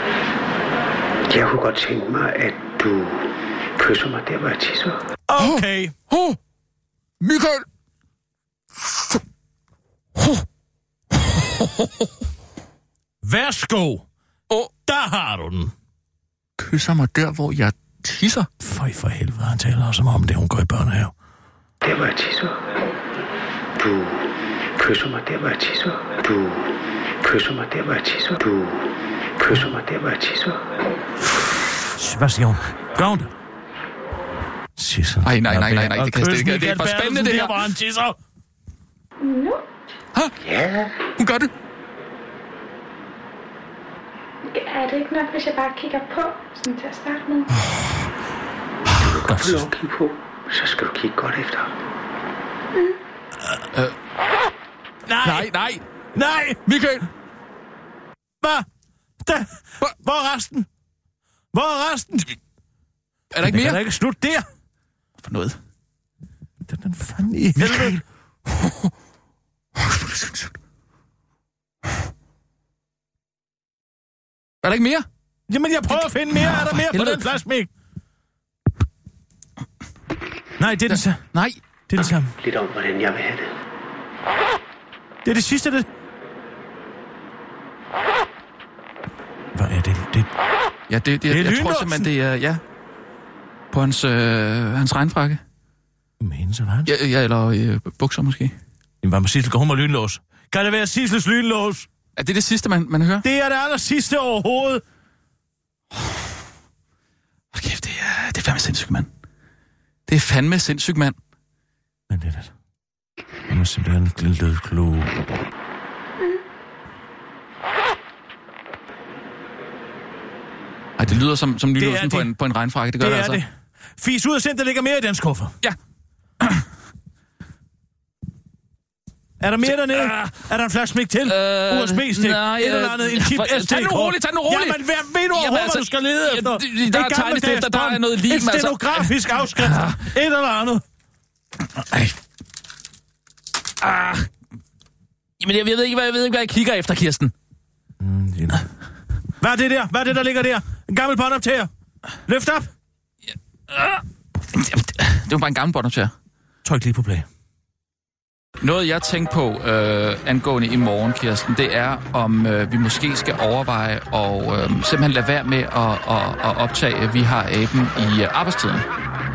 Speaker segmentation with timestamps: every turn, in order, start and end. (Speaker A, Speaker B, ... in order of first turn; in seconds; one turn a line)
Speaker A: 1.3-5.0
Speaker B: 5.3-6.0
Speaker C: 5.4-6.4
Speaker C: 7.2-7.7
Speaker B: 13.2-14.1
Speaker B: 14.9-15.7
Speaker C: 16.6-18.5
Speaker B: 18.6-21.1
Speaker A: 21.8-22.7
Speaker A: 23.8-30.7
Speaker B: 31.9-33.3
Speaker B: 34.8-38.2
Speaker C: 35.2-37.6
Speaker D: 39.2-39.6
Speaker A: 40.4-41.0
Speaker C: 41.2-41.5
Speaker D: 44.5-47.5
Speaker C: 47.6-48.0
Speaker A: 49.0-51.8
Speaker B: 49.2-49.7
Speaker B: 55.1-55.5
Speaker C: 55.2-55.8
Speaker B: 56.1-56.6
Speaker C: 56.7-57.1
Speaker B: 58.4-58.7
Speaker B: 59.2-60.7
Speaker B: 61.5-62.3
Speaker C: 63.3-63.8
Speaker B: 63.4-64.5
Speaker C: 65.2-65.6
Speaker B: 66.7-68.0
Speaker C: 67.6-68.9
Speaker C: 69.8-70.4
Speaker C: 74.6-75.0
Speaker B: 75.5-77.7
Speaker C: 76.3-77.3
Speaker B: 80.6-81.2
Speaker C: 80.9-81.6
Speaker B: 81.9-82.3
Speaker A: 82.4-83.5
Speaker B: 85.2-85.9
Speaker B: 89.5-90.3
Speaker C: 90.9-92.6
Speaker B: 91.3-92.1
Speaker C: 93.7-95.4
Speaker B: 96.2-96.9
Speaker C: 96.9-98.5
Speaker B: 99.0-101.9
Speaker C: 102.2-103.3
Speaker B: 103.2-104.8
Speaker C: 107.5-109.1
Speaker C: 110.1-111.2
Speaker B: 112.1-112.5
Speaker B: 113.5-115.2
Speaker C: 121.0-123.4
Speaker B: 121.8-122.3
Speaker B: 123.0-125.5
Speaker C: 126.4-126.7
Speaker B: 129.4-140.8
Speaker C: 129.7-130.3
Speaker C: 131.2-140.1
Speaker C: 141.8-142.1
Speaker C: 143.8-144.3
Speaker C: 145.4-147.3
Speaker B: 148.0-148.7
Speaker B: 149.4-151.7
Speaker B: 152.3-152.7
Speaker C: 153.7-156.1
Speaker B: 156.7-157.3
Speaker C: 158.6-168.9